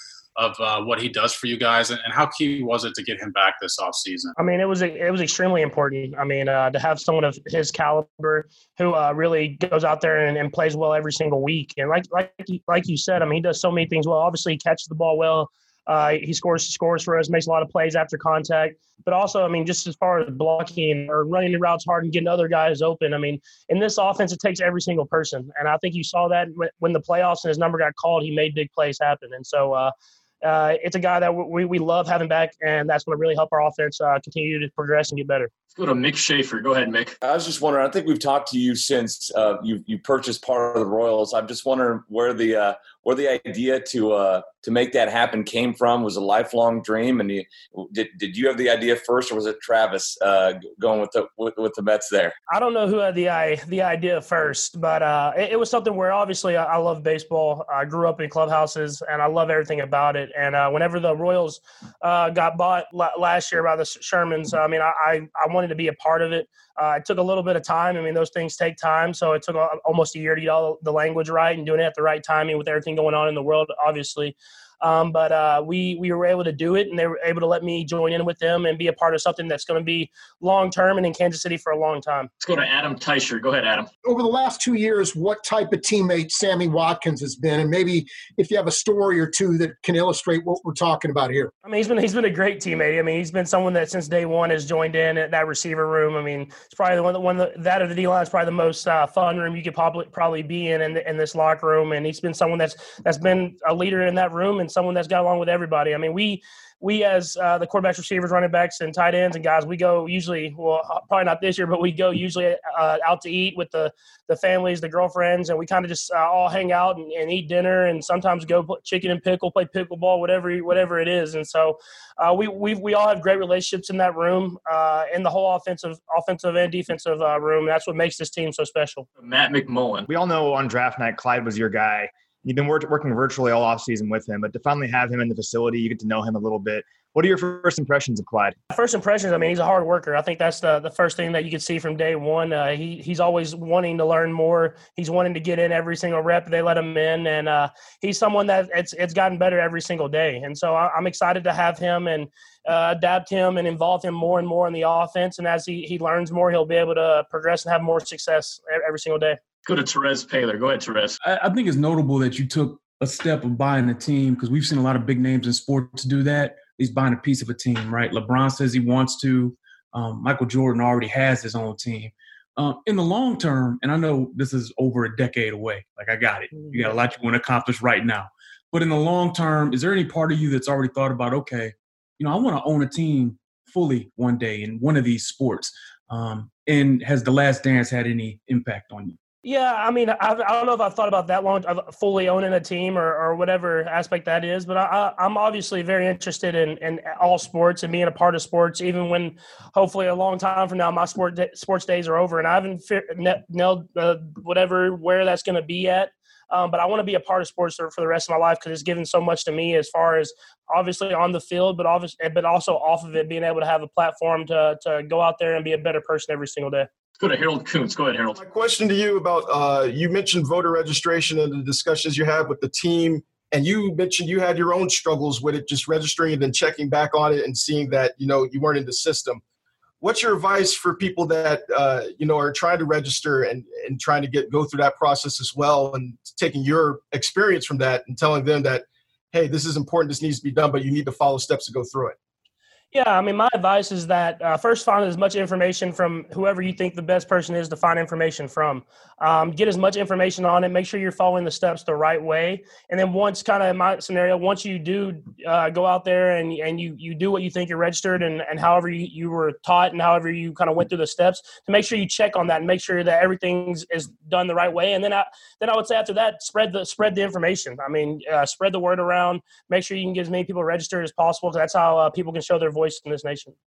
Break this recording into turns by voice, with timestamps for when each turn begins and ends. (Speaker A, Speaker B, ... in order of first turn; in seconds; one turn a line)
Speaker A: 0.4-4.3
Speaker B: 4.4-35.5
Speaker C: 35.8-37.1
Speaker D: 37.2-52.4
Speaker B: 52.5-82.3
Speaker C: 82.4-83.9
Speaker E: 84.0-91.5
Speaker B: 91.7-129.1
Speaker C: 129.2-130.1
Speaker F: 130.1-138.6
Speaker B: 138.7-159.4
Speaker C: 159.6-161.2
Speaker G: 161.2-189.2
Speaker B: 189.4-216.9
Speaker C: 217.2-218.4
Speaker H: 218.4-229.4
Speaker H: 230.0-242.2
Speaker B: 242.9-273.6